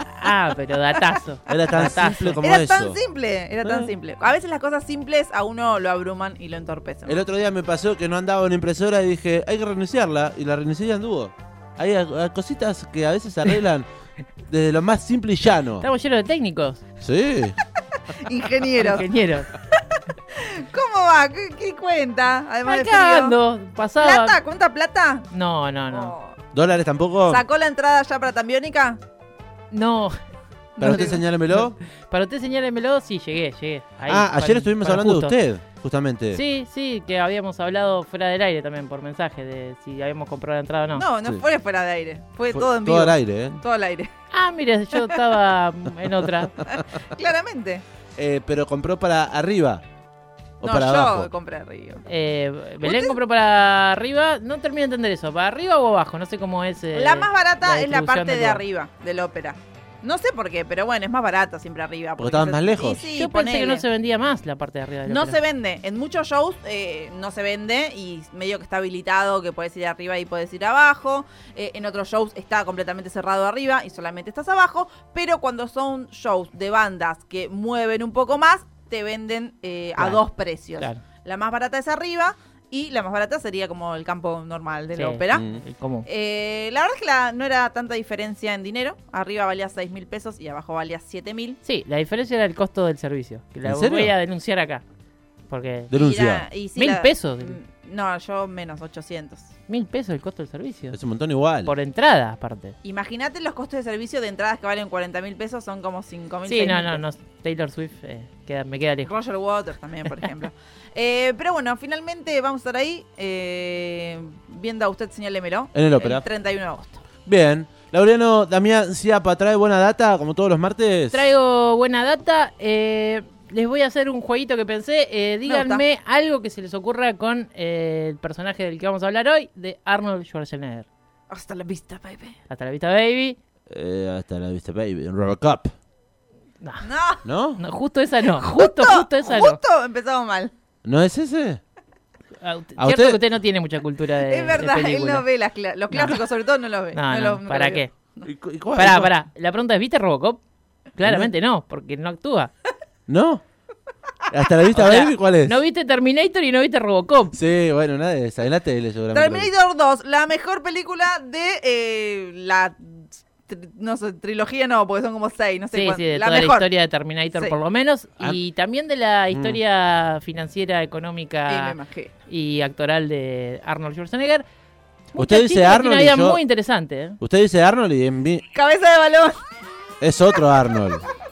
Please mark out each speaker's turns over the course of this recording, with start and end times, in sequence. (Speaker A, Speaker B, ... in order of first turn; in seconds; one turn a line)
Speaker A: 0.1-2.4
Speaker B: 1.5-3.0
Speaker C: 2.4-7.2
Speaker B: 3.6-3.9
Speaker B: 7.1-13.9
Speaker B: 14.5-15.9
Speaker A: 15.8-16.8
Speaker B: 17.0-17.6
Speaker C: 18.1-23.4
Speaker A: 18.8-19.5
Speaker A: 22.6-24.4
Speaker C: 24.0-25.3
Speaker A: 25.3-26.1
Speaker C: 25.9-26.4
Speaker B: 26.6-27.4
Speaker C: 27.3-29.0
Speaker A: 29.7-30.1
Speaker C: 30.8-31.2
Speaker B: 30.8-31.8
Speaker A: 30.8-35.4
Speaker B: 34.1-36.4
Speaker A: 36.3-41.1
Speaker C: 40.9-44.1
Speaker B: 42.5-43.6
Speaker A: 44.3-46.7
Speaker C: 46.6-47.8
Speaker B: 48.2-49.8
Speaker B: 50.6-51.3
Speaker C: 50.6-52.0
Speaker A: 52.1-58.6
Speaker C: 52.8-53.2
Speaker C: 56.9-63.9
Speaker B: 62.2-63.0
Speaker A: 62.9-65.4
Speaker C: 65.1-85.4
Speaker A: 85.0-86.1
Speaker B: 85.3-85.6
Speaker C: 86.1-91.6
Speaker A: 91.6-94.8
Speaker B: 93.7-94.1
Speaker A: 95.5-96.0
Speaker B: 95.9-96.5
Speaker C: 95.9-99.5
Speaker A: 96.8-97.6
Speaker A: 99.7-101.0
Speaker B: 100.9-101.7
Speaker A: 101.6-102.8
Speaker C: 102.8-107.0
Speaker A: 106.5-109.1
Speaker C: 109.0-117.0
Speaker B: 115.7-116.2
Speaker B: 117.2-121.2
Speaker A: 121.1-130.9
Speaker C: 125.5-125.8
Speaker C: 131.3-132.4
Speaker A: 132.5-133.4
Speaker B: 133.7-135.7
Speaker A: 136.6-136.9
Speaker C: 136.8-137.2
Speaker B: 137.2-137.6
Speaker A: 137.6-139.6
Speaker C: 138.2-140.5
Speaker B: 140.8-141.6
Speaker A: 142.4-145.2
Speaker B: 142.8-143.2
Speaker C: 144.2-148.3
Speaker A: 145.9-146.2
Speaker A: 146.9-147.9
Speaker B: 148.3-149.1
Speaker A: 148.7-150.4
Speaker A: 150.9-152.5
Speaker B: 151.0-151.3
Speaker B: 153.1-153.4
Speaker B: 154.3-155.6
Speaker A: 154.7-157.4
Speaker B: 157.3-159.5
Speaker C: 159.1-166.7
Speaker A: 165.7-171.8
Speaker B: 169.3-169.6
Speaker C: 171.5-172.1
Speaker A: 172.3-174.4
Speaker A: 175.1-177.2
Speaker B: 175.2-176.4
Speaker B: 177.2-178.4
Speaker C: 178.5-179.4
Speaker B: 180.0-181.0